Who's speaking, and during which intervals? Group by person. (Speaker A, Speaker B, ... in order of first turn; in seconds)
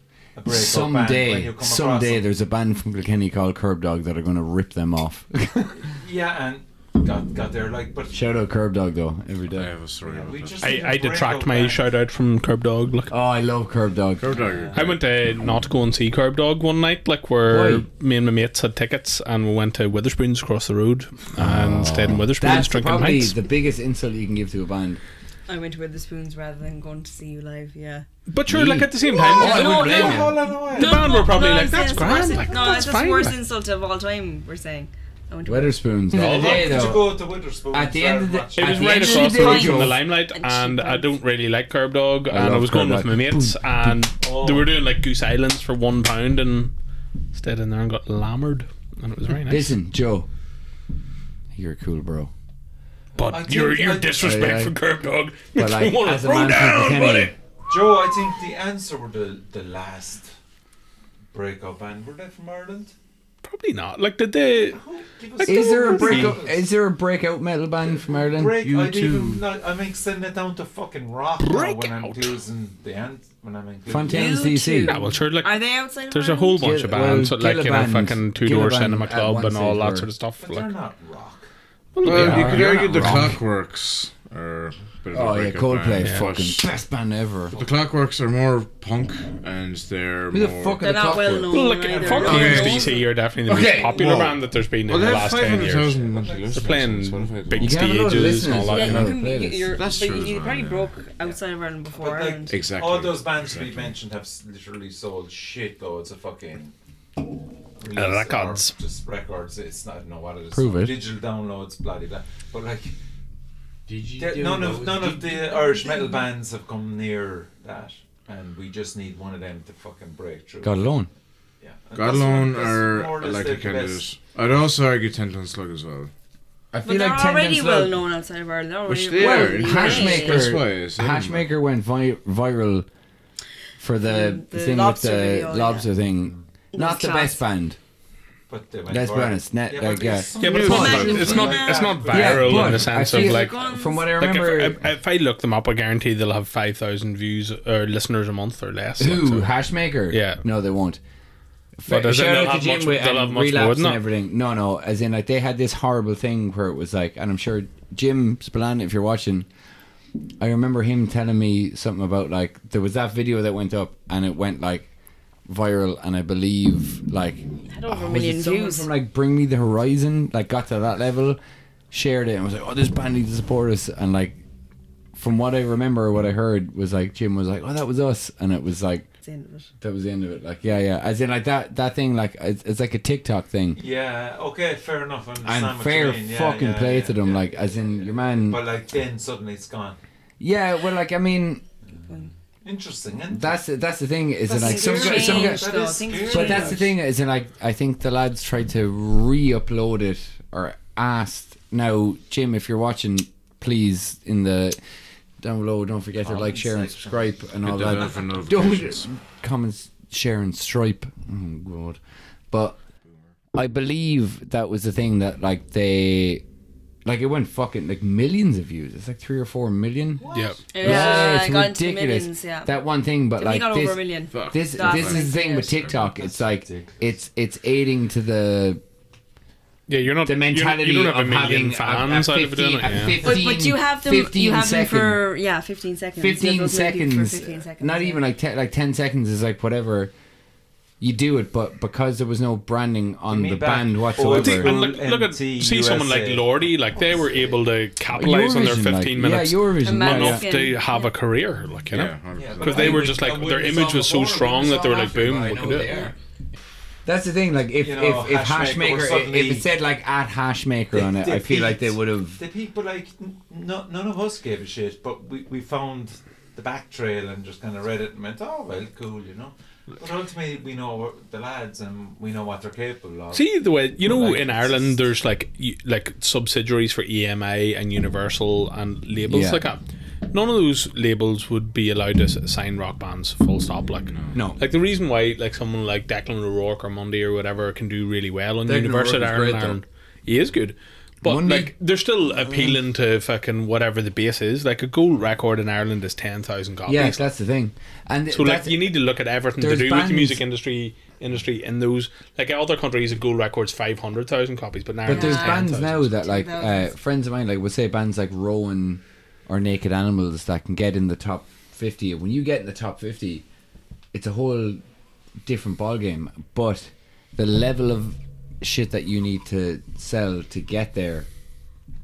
Speaker A: 0.3-2.2, 5.9-8.3, 10.0-11.9, 14.3-15.0, 29.3-31.1, 36.1-38.9, 44.2-44.7, 53.1-54.6, 57.7-60.3, 61.3-62.9, 64.6-66.7, 68.2-74.5, 80.4-81.5, 95.0-96.8, 101.2-106.7, 107.8-113.0, 114.2-120.9, 121.6-124.0, 138.5-143.1, 183.8-190.0, 191.9-193.6, 194.4-196.9, 206.2-207.4, 208.0-208.2, 220.2-221.3, 225.9-227.1, 243.3-247.5, 252.4-253.9, 257.8-259.7, 260.9-275.0
Speaker B: 0.5-5.9, 8.1-9.7, 13.1-14.3, 17.4-17.9, 21.4-25.0, 28.5-30.4, 35.5-37.1, 37.7-40.0, 42.3-44.0, 49.5-50.3, 51.5-52.3, 54.2-54.8, 55.6-57.3, 65.4-69.4, 73.9-75.0, 76.6-80.1, 82.0-83.4, 85.1-87.5, 90.3-91.7, 92.3-92.6, 93.5-94.3, 97.6-99.8, 110.5-111.0, 113.9-115.3, 120.6-121.1, 126.7-128.0, 129.2-132.9, 133.8-137.8, 138.9-141.4, 142.1-144.8, 149.0-151.0, 151.8-159.5, 160.4-164.9, 165.5-171.4, 171.9-174.4, 175.2-179.1, 179.8-183.8, 185.4-188.6, 190.4-191.6, 193.3-204.8, 205.4-212.0, 212.5-212.8, 213.5-216.4, 217.1-228.8, 230.2-235.2, 236.2-240.1, 241.0-244.8, 248.1-250.4, 252.7-256.1, 257.1-262.4, 279.3-279.7, 284.3-284.6, 288.6-289.8, 291.2-291.7, 292.3-292.8, 296.9-298.9, 299.6-300.4, 305.1-313.5, 314.1-314.8, 315.4-321.3
Speaker C: 9.5-10.8, 14.2-15.0, 82.0-86.7, 87.5-90.8, 92.2-92.9, 93.5-97.9, 99.7-101.0, 102.5-104.0, 121.9-126.1, 128.9-131.5, 140.6-141.1, 207.6-209.1, 224.3-225.3, 251.9-253.0, 284.1-284.4
Speaker D: 10.6-13.1, 14.8-23.4, 28.3-33.4, 36.1-36.8, 38.6-46.7, 47.3-49.8, 53.2-57.4, 63.4-64.8, 65.4-66.4, 71.4-72.4, 74.8-80.7, 82.0-83.4, 86.0-86.3, 91.5-96.0, 96.5-99.2, 107.9-108.8, 129.8-130.1, 140.4-143.6, 144.2-150.4, 151.9-154.0, 220.3-220.6, 229.9-233.2, 244.2-256.0, 273.3-297.3, 298.3-306.2
Speaker E: 25.5-28.1, 29.1-35.8, 36.3-36.9, 38.8-41.1, 74.0-77.1, 90.8-93.0, 98.5-102.6, 115.2-116.3, 126.8-130.5, 134.0-135.9, 136.7-137.4, 140.4-142.1, 143.0-144.1, 167.7-168.9, 179.2-179.7, 192.1-192.3, 194.5-196.8, 220.7-222.7, 223.4-225.9, 233.2-238.2, 249.8-251.1, 305.1-306.9